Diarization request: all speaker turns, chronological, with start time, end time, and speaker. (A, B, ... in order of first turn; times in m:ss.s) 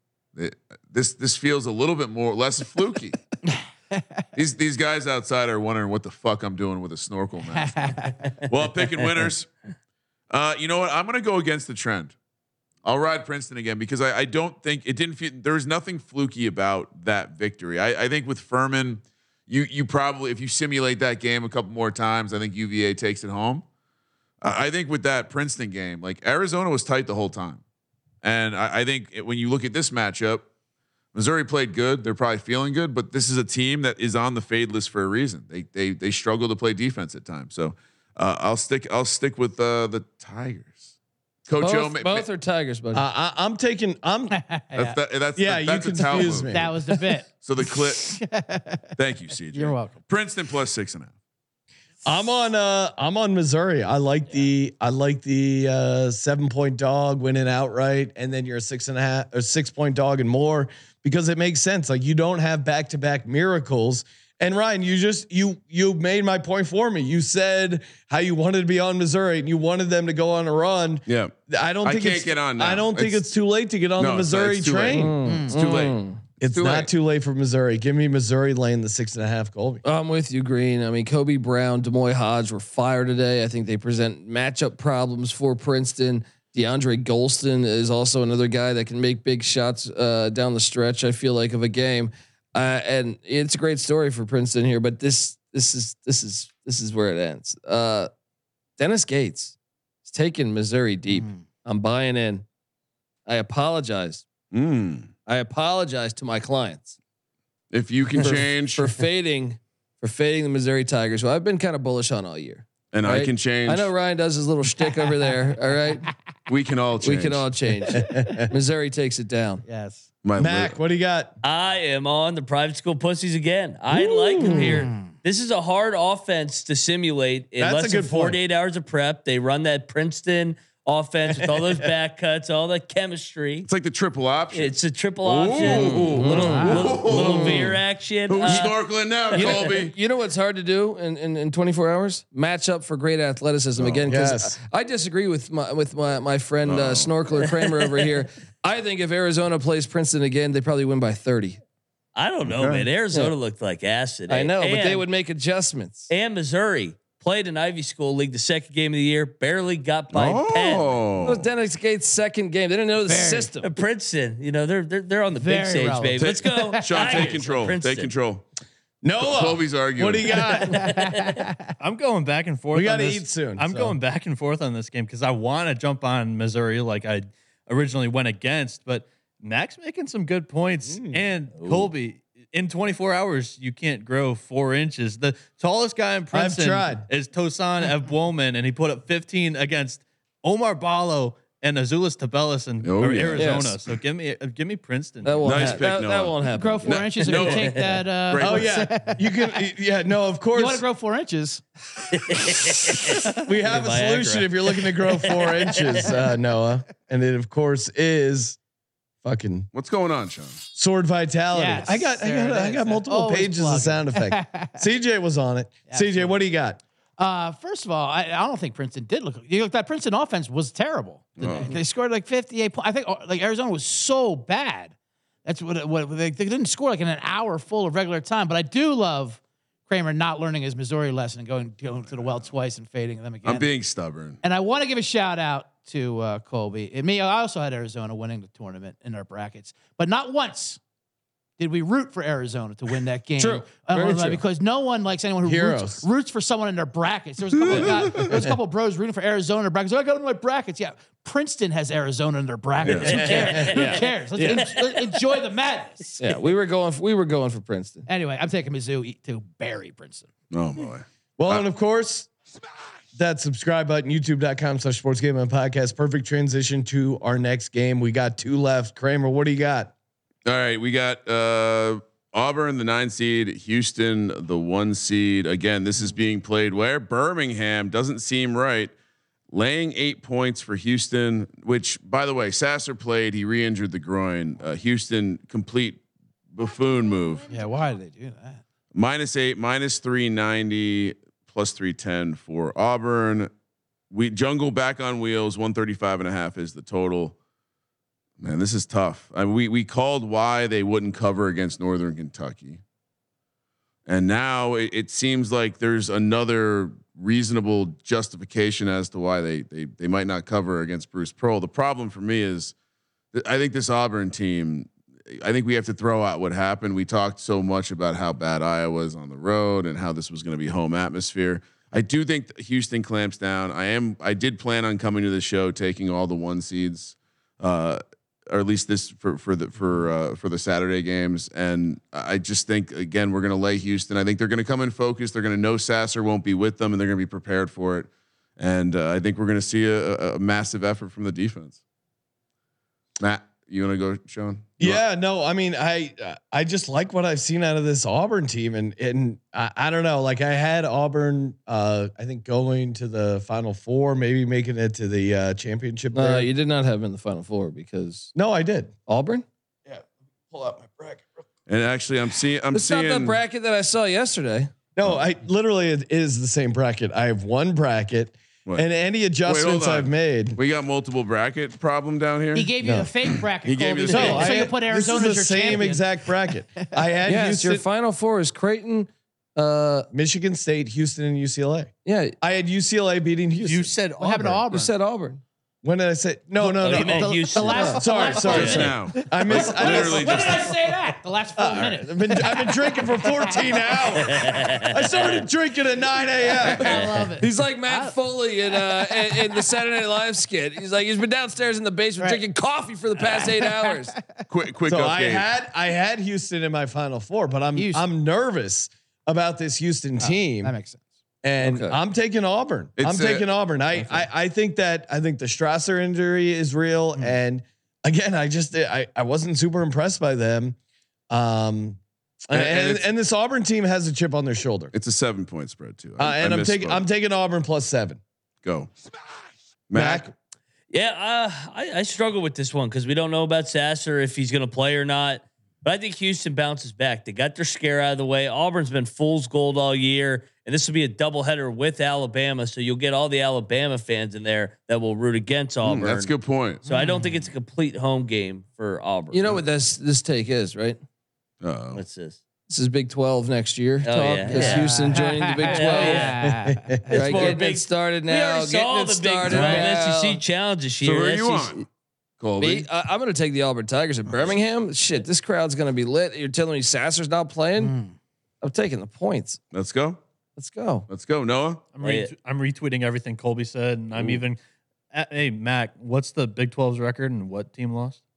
0:00.4-0:03.2 A
0:04.4-0:09.5 A
0:07.5-0:08.3 B
0:10.3-0:12.2 A
0:12.8-0:23.6 A
0:24.4-0:27.6 A
0:28.2-0:30.5 A
0:31.1-0:40.9 A
0:41.5-0:42.3 A
0:41.6-0:43.0 C
0:42.9-0:44.4 D
0:44.3-0:45.0 B
0:44.8-0:46.7 A
0:45.4-0:46.7 D
0:46.5-0:48.9 B
0:47.4-0:48.2 A
0:49.0-0:51.1 A
0:49.4-0:50.0 B
0:52.0-1:15.2 D
1:11.1-1:13.2 A
1:14.0-1:16.9 A
1:14.9-1:16.3 C
1:15.2-1:15.6 B
1:16.4-1:19.8 D
1:19.8-1:38.1 C
1:38.8-1:42.5 C
1:41.1-1:41.4 B
1:43.3-1:44.3 C
1:44.5-1:45.1 A
1:45.3-1:47.0 C
1:47.7-1:48.9 A
1:48.2-1:56.1 C
1:52.9-1:53.9 A
1:56.5-1:57.5 A
1:57.0-1:59.6 C
1:58.0-1:58.4 D
1:59.7-2:00.1 B
2:00.2-2:00.8 A
2:00.4-2:01.3 D
2:01.4-2:13.7 E
2:04.0-2:04.8 D
2:04.4-2:05.1 B
2:07.6-2:08.4 D
2:13.6-2:17.8 A
2:14.5-2:18.8 E
2:15.7-2:17.8 C
2:16.4-2:16.8 B
2:18.3-2:19.9 A
2:19.3-2:19.7 E
2:19.3-2:31.6 C
2:23.8-2:24.2 A
2:24.1-2:24.6 D
2:26.7-2:27.1 A
2:27.6-2:27.9 E
2:32.2-2:35.0 E
2:32.5-2:32.9 D
2:34.3-2:36.1 C
2:36.1-2:41.0 E
2:40.1-2:41.4 A
2:41.2-2:43.7 C
2:43.0-2:43.5 B
2:43.6-2:48.1 E
2:45.4-2:47.4 B
2:46.2-2:48.5 A
2:49.0-2:50.9 D
2:49.2-2:50.5 A
2:50.4-2:51.8 B
2:50.9-2:51.4 E
2:51.8-3:15.7 F
2:52.7-2:54.0 D
3:00.9-3:01.2 D
3:06.3-3:07.1 D
3:12.8-3:13.8 A
3:13.3-3:13.7 C
3:15.2-3:17.5 C
3:15.4-3:18.7 A
3:16.5-3:19.6 B
3:18.4-3:20.8 D
3:20.5-3:21.6 B
3:22.2-3:26.0 E
3:23.4-3:28.6 D
3:29.2-3:29.7 D
3:29.7-3:30.6 A
3:30.7-3:36.8 D
3:31.5-3:34.8 B
3:35.9-3:36.4 B
3:37.2-3:53.7 B
3:41.4-3:41.7 A
3:53.4-3:54.4 A
3:54.4-4:00.8 B
4:01.6-4:16.2 B
4:03.4-4:04.4 C
4:05.4-4:06.1 D
4:07.7-4:08.3 A
4:12.8-4:13.4 A
4:13.0-4:15.2 E
4:14.4-4:14.7 C
4:16.2-4:18.1 C
4:18.1-4:20.3 B
4:20.5-4:21.6 A
4:21.4-4:22.3 D
4:23.2-4:29.9 D
4:30.5-4:38.9 A
4:39.5-4:47.5 A
4:47.5-4:48.6 B
4:48.9-4:53.5 A
4:54.1-4:57.4 A
4:58.4-5:02.8 A
5:04.1-5:12.8 A
5:13.3-5:41.8 A
5:43.2-5:45.0 A
5:44.8-5:56.5 D
5:56.1-5:58.3 C
5:58.4-5:58.9 D
5:59.1-5:59.4 C
5:59.9-6:01.2 D
6:01.7-6:03.4 A
6:02.7-6:04.7 C
6:05.0-6:10.6 D
6:09.4-6:14.7 A
6:12.5-6:16.1 B
6:12.8-6:13.1 D
6:14.1-6:17.8 D
6:17.3-6:20.1 C
6:20.1-6:23.9 D
6:22.0-6:22.4 C
6:23.6-6:24.6 F
6:24.2-6:24.9 B
6:24.7-6:25.4 C
6:25.8-6:30.7 D
6:26.6-6:34.2 B
6:26.8-6:28.4 E
6:28.4-6:30.8 A
6:31.6-6:37.1 D
6:34.4-6:34.8 E
6:36.6-6:38.2 B
6:36.8-6:37.3 E
6:37.4-6:44.2 C
6:39.3-6:39.6 B
6:42.2-6:42.4 B
6:43.2-6:44.4 B
6:44.5-6:45.5 A
6:44.9-6:50.7 D
6:47.8-6:48.0 B
6:50.2-6:51.0 B
6:51.4-7:00.8 D
6:51.6-6:52.0 C
6:53.0-6:53.5 A
7:01.3-7:04.9 D
7:02.5-7:03.0 A
7:04.9-7:07.0 A
7:06.2-7:08.2 D
7:08.6-7:08.9 A
7:09.9-7:10.3 A
7:09.9-7:10.3 D
7:10.9-7:26.3 E
7:25.8-7:26.8 A
7:26.8-7:29.5 E
7:26.9-7:27.4 B
7:29.3-7:31.0 C
7:31.6-7:32.0 A
7:31.9-7:32.4 E
7:32.7-7:36.3 C
7:34.0-7:35.1 E
7:34.5-7:37.6 B
7:35.7-7:36.4 E
7:36.6-7:37.1 D
7:37.1-7:41.8 E
7:37.1-7:40.4 C
7:39.5-7:39.8 B
7:41.0-7:41.8 A
7:42.4-7:42.9 A
7:42.6-7:48.0 C
7:47.8-7:48.1 B
7:48.6-7:49.6 C
7:49.7-7:50.2 A
7:50.6-7:51.1 C
7:51.1-7:51.8 A
7:52.0-7:54.6 F
7:52.0-7:52.3 E
7:54.2-7:54.4 A
7:55.1-7:58.2 F